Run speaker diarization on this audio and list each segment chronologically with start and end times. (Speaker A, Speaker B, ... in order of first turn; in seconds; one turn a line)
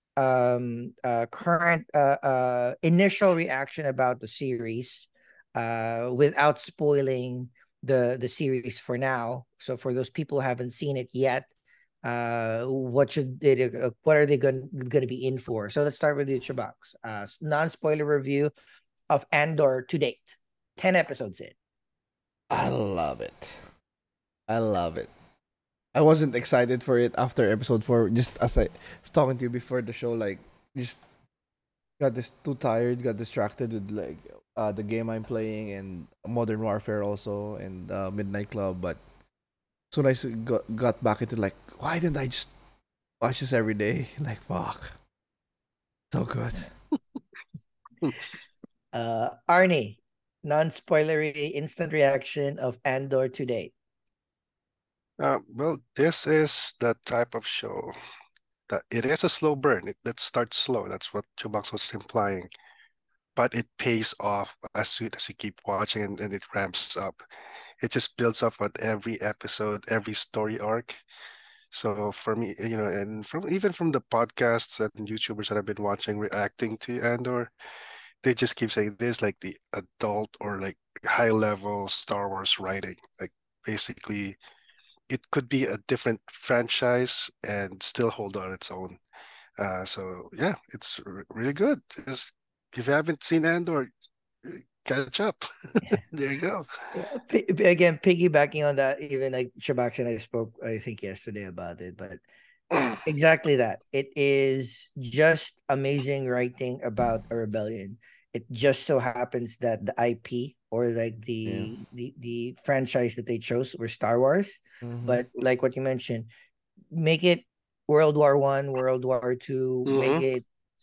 Speaker A: 0.2-11.5
Speaker A: 12.0-18.5
Speaker A: 19.1-21.6
Speaker B: 22.5-23.6
Speaker B: 24.5-25.1
Speaker B: 25.9-31.0
Speaker B: 32.0-39.0
Speaker B: 39.9-42.5
Speaker B: 43.2-45.0
Speaker B: 46.1-46.7
Speaker A: 48.9-53.7
Speaker C: 55.2-57.9
Speaker C: 58.7-62.5
Speaker C: 63.4-67.2
Speaker C: 67.8-71.0
Speaker C: 71.7-77.5
Speaker C: 78.2-84.4
Speaker C: 85.1-89.0
Speaker C: 89.6-93.9
Speaker C: 94.4-96.7
Speaker A: 96.9-102.2
Speaker A: 102.9-116.3
Speaker B: 111.5-111.7
Speaker B: 114.8-115.2
Speaker A: 116.9-120.5
Speaker C: 119.9-120.3